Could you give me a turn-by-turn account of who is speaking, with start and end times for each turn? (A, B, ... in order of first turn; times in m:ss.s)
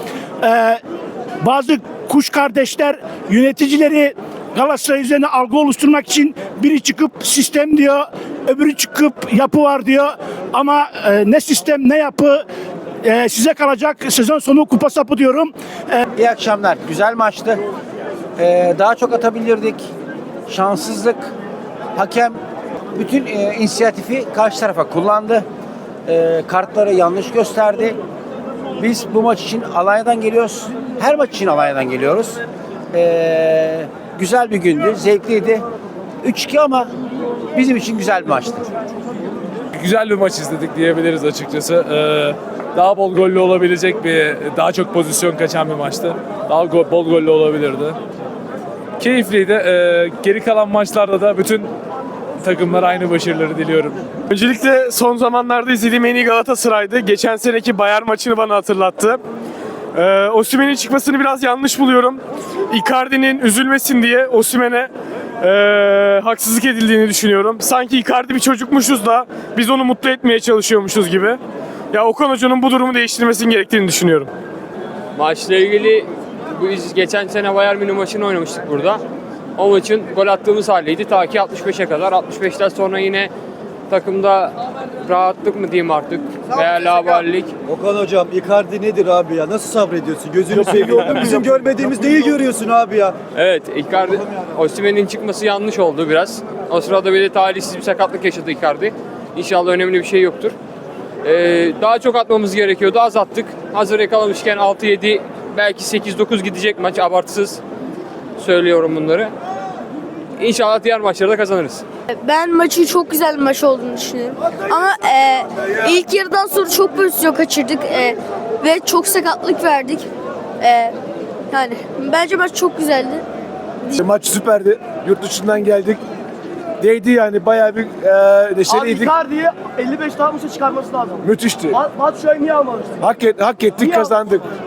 0:00.4-0:00.8 A
0:01.4-0:12.4 A
0:13.0-0:16.0 A
0:16.1-0:17.6 B
0:18.4-0:19.9 B
0:20.5-0:21.3 B
0:21.9-0:22.4 B
0:22.9-0:25.4 B
0:26.0-0:28.0 B
0:28.7-0:32.4 B
0:32.9-0:35.6 B
0:36.2-0:36.9 B
0:37.5-0:38.6 B
0:39.7-0:48.0 C
0:49.0-0:51.7 C
0:52.4-0:54.0 C
0:54.3-0:59.2 D
0:59.9-1:11.4 D
1:11.9-1:14.3 D
1:15.2-1:19.0 E
1:19.6-1:23.3 E
1:23.9-1:27.5 E
1:27.7-1:33.1 F
1:30.6-1:31.4 E
1:30.7-1:31.3 G
1:33.4-1:40.5 E
1:41.2-1:47.6 E
1:48.4-1:49.3 E
1:50.4-1:51.8 E
1:52.2-2:00.0 H
2:00.6-2:00.9 H
2:01.5-2:03.2 H
2:04.0-2:05.9 I
2:06.8-2:07.2 I
2:07.8-2:09.0 I
2:08.7-2:09.0 G
2:09.6-2:11.0 G
2:12.2-2:12.8 G
2:13.3-2:14.3 I